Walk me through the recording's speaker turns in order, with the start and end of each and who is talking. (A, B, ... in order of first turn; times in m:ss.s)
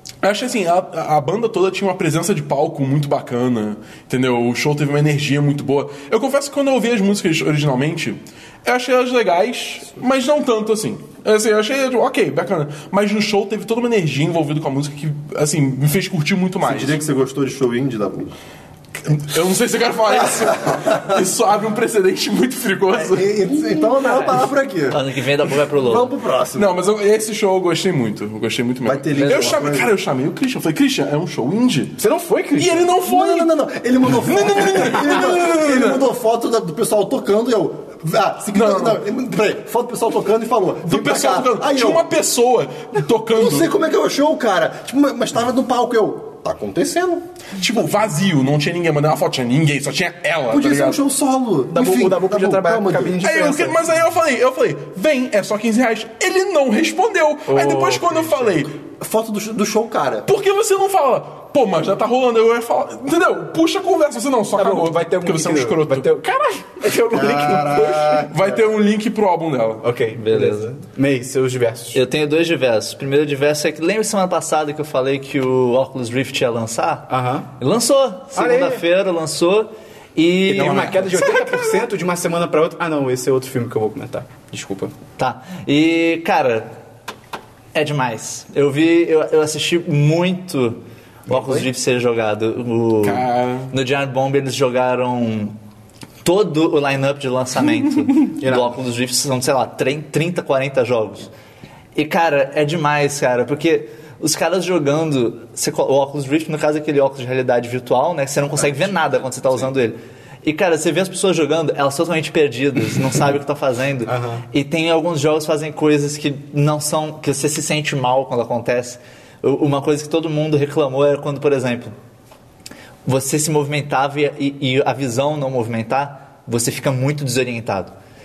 0:00.2-0:17.0 A
0:16.6-0:18.3 B
0:19.0-0:23.5 A
0:22.9-0:26.8 B
0:24.0-0:26.1 C
0:26.6-0:32.0 A
0:28.8-0:29.9 B
0:29.1-0:29.7 C
0:32.0-0:32.9 D
0:32.6-0:33.5 A
0:33.0-0:42.0 B
0:34.0-0:36.0 A
0:38.5-0:39.0 A
0:40.8-0:43.8 A
0:43.3-0:47.2 B
0:47.6-0:51.0 A
0:50.5-0:53.2 B
0:51.7-0:53.8 D
0:53.2-0:58.8 A
0:57.5-0:58.6 D
0:59.0-1:00.3 B
1:00.2-1:06.1 A
1:04.5-1:08.3 D
1:07.1-1:08.6 B
1:08.3-1:09.8 A
1:09.8-1:12.0 D
1:10.2-1:10.7 C
1:11.9-1:21.5 C
1:17.1-1:17.5 D
1:18.3-1:18.8 D
1:20.5-1:24.9 D
1:25.2-1:26.7 C
1:27.7-1:35.6 C
1:33.0-1:33.7 A
1:36.2-1:41.3 C
1:38.4-1:38.8 D
1:42.0-2:01.9 C
1:48.6-1:49.7 B
1:54.1-1:54.4 D
2:03.0-2:07.9 C